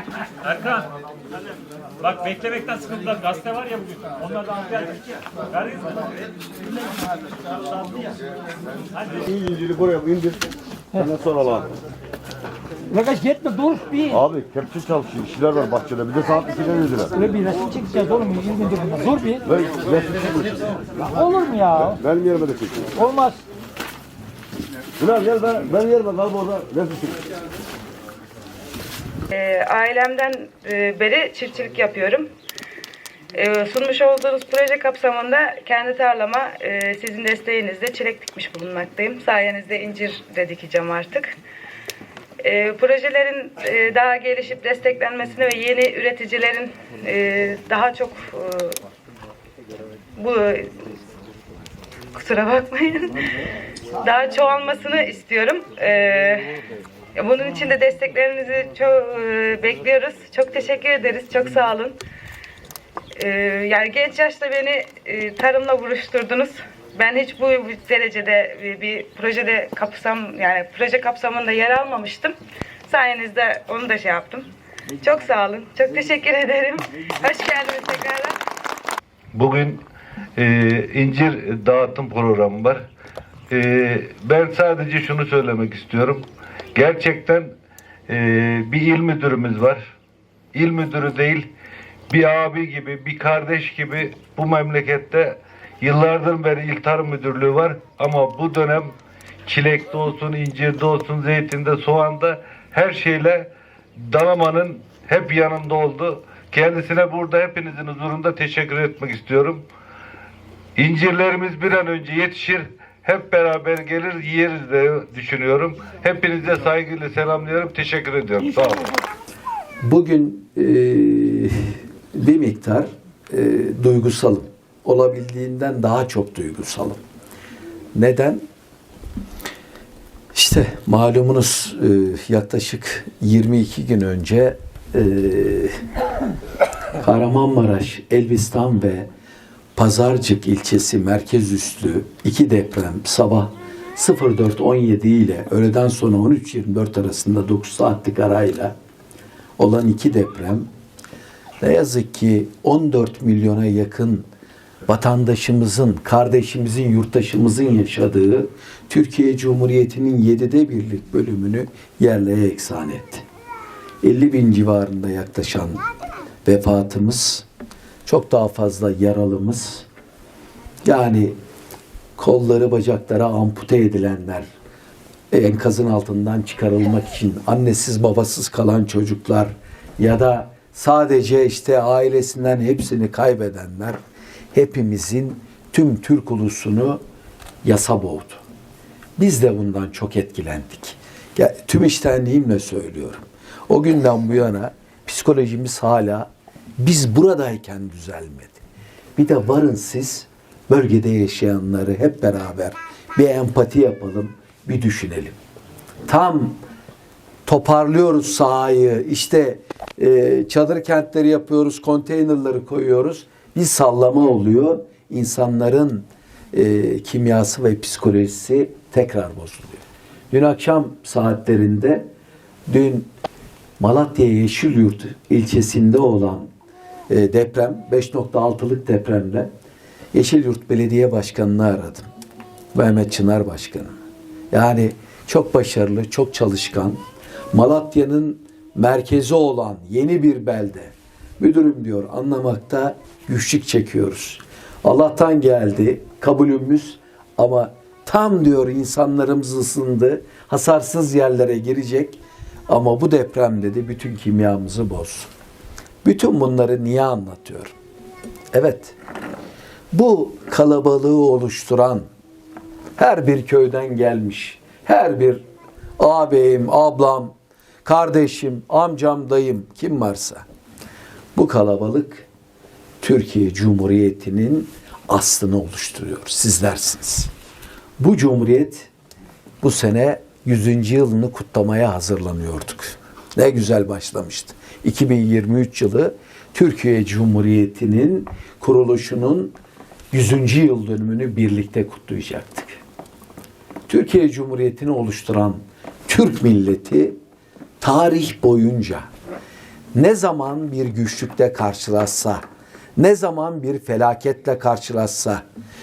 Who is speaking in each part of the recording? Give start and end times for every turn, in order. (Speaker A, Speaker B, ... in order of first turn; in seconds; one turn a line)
Speaker A: 0.5-0.8
Speaker A: 2.0-4.9
Speaker B: 9.2-10.4
Speaker B: 11.0-11.7
Speaker C: 12.9-14.2
Speaker B: 14.1-17.1
Speaker C: 17.1-19.4
Speaker B: 19.5-20.6
Speaker C: 21.1-22.0
Speaker B: 21.9-22.9
Speaker C: 22.9-23.4
Speaker B: 25.0-27.2
Speaker D: 29.3-32.3
Speaker D: 33.3-41.4
Speaker D: 42.4-48.8
Speaker D: 50.2-50.7
Speaker D: 52.1-53.2
Speaker D: 54.0-56.5
Speaker D: 57.2-62.0
Speaker D: 63.2-72.3
Speaker D: 72.9-74.5
Speaker D: 75.0-78.4
Speaker E: 79.3-79.8
Speaker E: 80.4-82.9
Speaker E: 83.5-87.5
Speaker E: 88.1-89.9
Speaker E: 90.5-91.5
Speaker E: 92.1-109.7
Speaker E: 110.8-118.9
Speaker F: 119.8-127.0
Speaker F: 128.0-128.4
Speaker F: 130.3-135.8
Speaker F: 137.0-139.1
Speaker F: 139.8-148.8
Speaker F: 149.6-150.7
Speaker F: 151.6-154.3
Speaker F: 154.9-163.2
Speaker F: 164.0-165.8
Speaker F: 166.4-167.5
Speaker F: 168.1-169.9
Speaker F: 170.8-171.4
Speaker F: 172.2-174.5
Speaker F: 175.3-184.0
Speaker F: 184.5-187.0
Speaker F: 187.6-188.4
Speaker F: 189.2-198.6
Speaker F: 199.2-205.4
Speaker F: 206.1-206.6
Speaker F: 207.5-222.1
Speaker F: 222.7-223.1
Speaker F: 223.8-226.5
Speaker F: 227.1-229.5
Speaker F: 230.1-232.1
Speaker F: 232.7-234.0
Speaker F: 234.5-237.0
Speaker F: 237.5-255.3
Speaker F: 256.0-257.7
Speaker F: 258.5-259.0
Speaker F: 259.9-262.1
Speaker F: 263.0-265.4
Speaker F: 266.0-267.3
Speaker F: 267.9-270.4
Speaker F: 271.4-272.3
Speaker F: 273.0-277.3
Speaker F: 278.0-278.9
Speaker F: 279.6-289.6
Speaker F: 290.1-292.8
Speaker F: 293.9-297.2
Speaker F: 297.8-299.1
Speaker F: 299.9-302.4
Speaker F: 303.0-305.4